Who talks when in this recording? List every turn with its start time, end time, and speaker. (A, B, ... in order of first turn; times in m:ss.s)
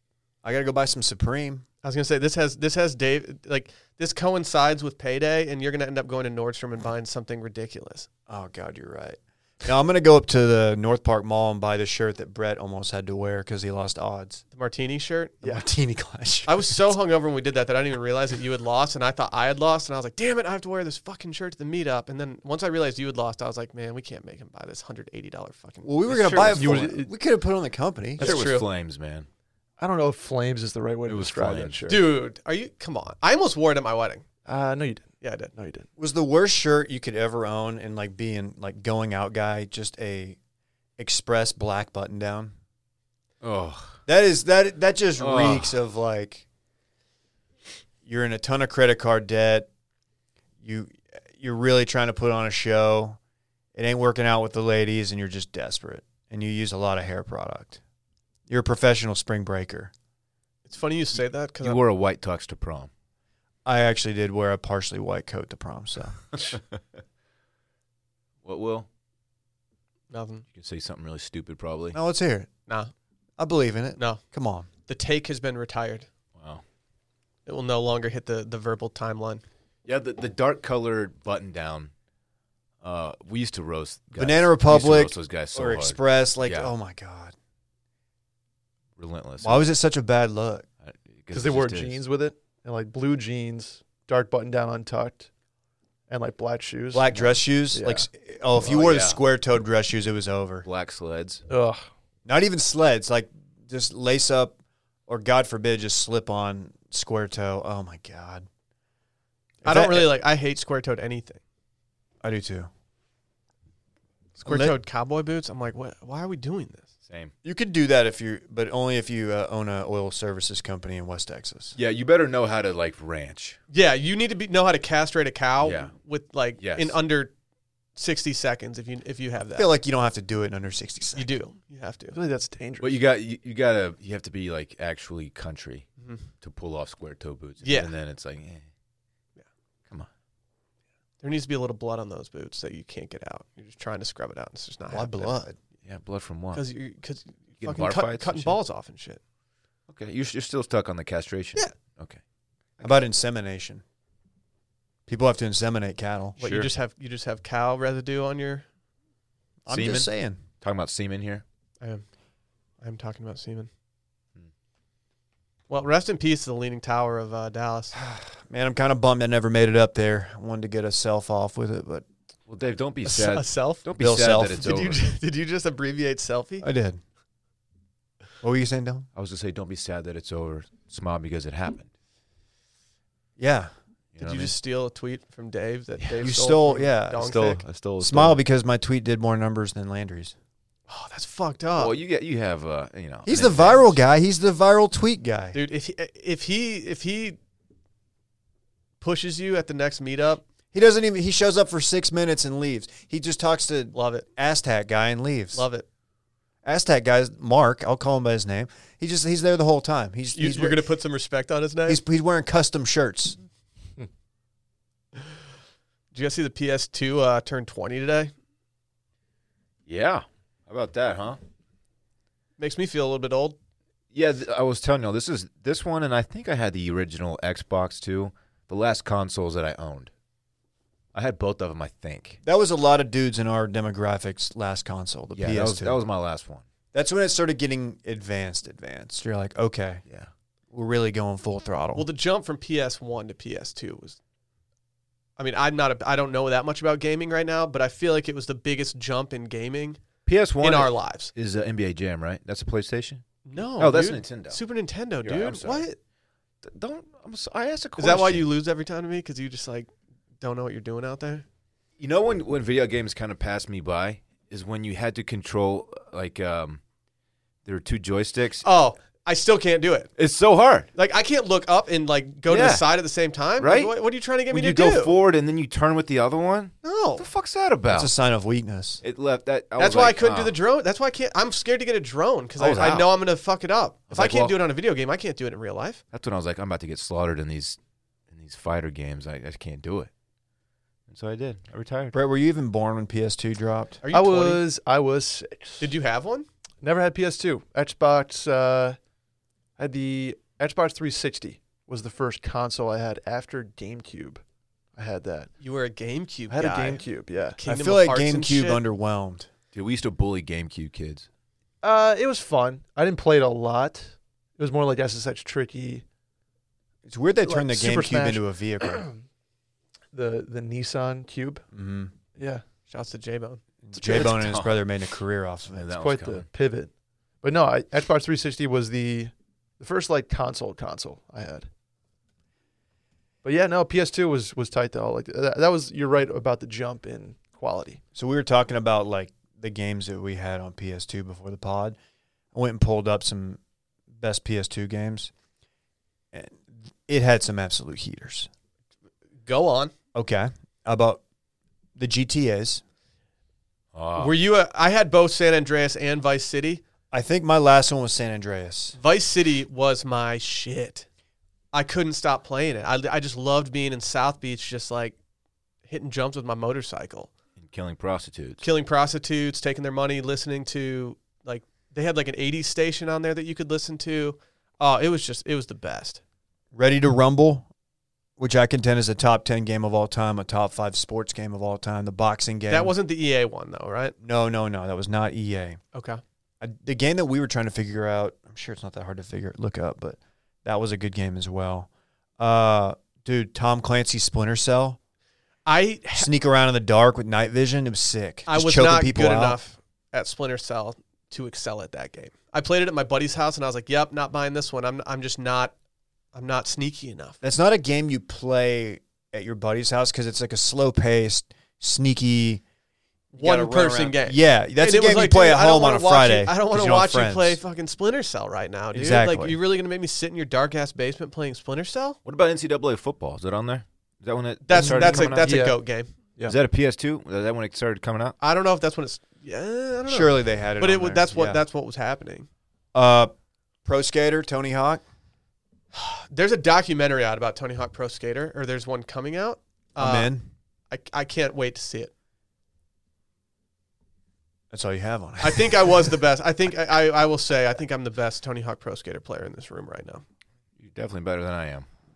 0:00.4-0:01.6 A
0:01.8-0:08.1 B
0:08.3-0:14.4 A
0:14.5-0:15.4 B
0:15.4-0:16.9 A
0:16.5-0:26.6 B
0:25.8-0:28.4 A
0:26.2-0:26.5 C
0:26.5-0:27.1 D
0:28.2-0:29.3 C
0:28.2-0:28.7 B
0:29.8-0:32.1 D
0:31.1-0:31.8 C
0:31.9-0:34.2 B
0:34.5-0:35.9 D
0:35.2-0:35.5 B
0:36.0-0:40.4 A
0:41.0-0:42.5 A
0:43.4-0:44.0 C
0:44.1-0:46.4 A
0:45.2-0:45.8 C
0:48.1-0:49.7 A
0:50.6-0:53.2 A
0:53.8-0:57.8 A
0:58.5-0:59.9 A
1:00.7-1:01.8 B
1:01.6-1:02.9 C
1:03.6-1:06.6 A
1:06.4-1:06.6 C
1:08.4-1:08.9 C
1:10.1-1:10.4 B
1:10.5-1:12.0 C
1:11.9-1:12.5 A
1:13.4-1:14.7 A
1:14.9-1:16.1 B
1:16.4-1:16.6 C
1:17.5-1:19.4 B
1:19.8-1:21.9 C
1:22.8-1:26.7 C
1:24.2-1:27.3 A
1:29.0-1:29.6 C
1:29.4-1:30.7 A
1:30.8-1:32.0 C
1:31.3-1:35.3 D
1:36.1-1:38.1 D
1:36.9-1:40.7 A
1:38.6-1:39.2 C
1:40.6-1:41.4 C
1:41.5-1:41.8 D
1:42.3-1:44.6 A
1:45.1-1:48.5 A
1:49.6-1:50.1 A
1:49.6-1:51.4 B
1:52.2-1:52.7 A
1:54.4-1:56.9 B
1:54.4-1:54.8 A
1:57.4-2:01.8 A
2:01.8-2:03.6 C
2:03.7-2:07.3 B
2:05.6-2:05.9 C
2:06.6-2:07.0 C
2:08.0-2:09.7 B
2:09.5-2:11.3 A
2:11.2-2:12.2 B
2:12.1-2:13.0 D
2:12.8-2:15.9 C
2:16.4-2:18.6 C
2:17.6-2:17.9 B
2:21.2-2:25.4 B
2:24.9-2:25.6 A
2:25.8-2:26.6 C
2:26.5-2:29.2 B
2:27.6-2:28.6 C
2:29.9-2:32.2 C
2:32.8-2:33.8 A
2:35.1-2:36.4 A
2:36.4-2:36.7 C
2:36.4-2:38.7 B
2:39.7-2:40.4 A
2:39.7-2:40.1 C
2:40.6-2:41.4 C
2:42.8-2:43.7 B
2:45.7-2:47.9 B
2:48.0-2:52.0 A
2:52.5-2:55.0 C
2:53.0-2:53.9 B
2:54.0-2:54.7 A
2:54.5-2:56.7 B
2:56.6-2:57.0 A
2:58.4-2:59.1 A
2:59.2-3:01.9 C
3:03.4-3:03.7 A
3:04.1-3:04.5 C
3:04.2-3:07.6 B
3:06.2-3:10.4 A
3:07.2-3:08.4 C
3:10.9-3:12.0 B
3:11.8-3:13.9 C
3:13.3-3:15.6 A
3:15.5-3:17.4 B
3:19.0-3:20.4 B
3:20.7-3:25.6 A
3:23.9-3:24.3 B
3:25.5-3:25.9 B
3:26.6-3:30.8 A
3:30.3-3:32.0 B
3:31.9-3:33.4 A
3:36.1-3:38.3 B
3:39.9-3:41.4 C
3:42.6-3:43.6 B
3:44.1-3:50.1 C
3:51.1-3:52.4 C
3:52.4-3:56.0 A
3:55.4-3:56.6 C
3:56.9-4:00.0 A
4:00.7-4:02.1 A
4:02.0-4:04.2 B
4:05.4-4:10.0 B
4:10.3-4:14.6 C
4:10.6-4:11.3 B
4:13.5-4:16.0 B
4:15.2-4:15.9 C
4:16.6-4:18.5 C
4:18.0-4:21.4 B
4:22.0-4:26.8 C
4:27.6-4:28.6 C
4:28.6-4:30.1 B
4:30.2-4:30.9 C
4:31.0-4:35.2 B
4:32.5-4:32.9 C
4:33.6-4:33.9 C
4:34.5-4:38.1 C
4:36.8-4:37.2 B
4:37.9-4:39.0 A
4:39.0-4:40.6 C
4:39.8-4:46.0 B
4:42.6-4:43.1 A
4:44.1-4:44.6 C
4:46.1-4:47.8 C
4:48.3-4:50.1 C
4:51.1-4:52.2 C
4:52.1-4:54.0 A
4:54.0-4:54.6 B
4:54.1-4:55.9 D
4:55.8-4:56.5 B
4:56.8-4:59.0 D
4:59.8-5:04.4 D
5:05.0-5:05.5 D
5:05.6-5:07.0 B
5:06.5-5:07.6 D
5:07.6-5:08.8 B
5:07.7-5:09.5 A
5:09.7-5:11.3 C
5:11.8-5:16.0 D
5:17.1-5:19.1 A
5:17.4-5:19.2 D
5:20.1-5:21.7 D
5:21.7-5:22.1 A
5:22.4-5:22.6 D
5:22.9-5:23.6 B
5:23.8-5:26.0 A
5:24.0-5:24.8 C
5:25.7-5:26.5 C
5:26.0-5:26.9 D
5:27.4-5:31.7 D
5:33.4-5:38.0 D
5:38.2-5:42.0 A
5:42.5-5:43.6 A
5:44.2-5:45.3 A
5:46.3-5:48.5 A
5:49.4-5:49.9 B
5:50.1-5:51.2 A
5:52.0-5:52.8 A
5:53.9-5:54.4 C
5:54.2-5:56.8 B
5:57.1-5:59.0 A
5:59.0-6:01.1 B
6:01.7-6:05.2 B
6:05.9-6:07.3 B
6:07.6-6:08.7 C
6:08.6-6:16.2 B
6:16.7-6:17.7 A
6:18.4-6:22.9 A
6:22.7-6:24.2 B
6:24.2-6:25.8 A
6:25.9-6:26.2 B
6:26.6-6:35.0 A
6:35.7-6:36.3 B
6:36.2-6:39.6 A
6:38.5-6:45.7 B
6:46.3-6:47.4 B
6:47.4-6:52.6 A
6:53.3-7:02.2 B
6:53.4-6:57.6 A
6:58.9-6:59.6 A
7:02.2-7:05.6 C
7:04.6-7:06.1 B
7:04.7-7:05.8 D
7:06.5-7:08.4 C
7:08.4-7:12.5 B
7:10.1-7:11.6 A
7:12.9-7:13.3 A
7:13.8-7:15.0 A
7:15.9-7:20.3 B
7:20.0-7:20.5 A
7:20.9-7:22.1 B
7:24.7-7:26.0 A
7:25.4-7:30.2 B
7:30.8-7:31.9 C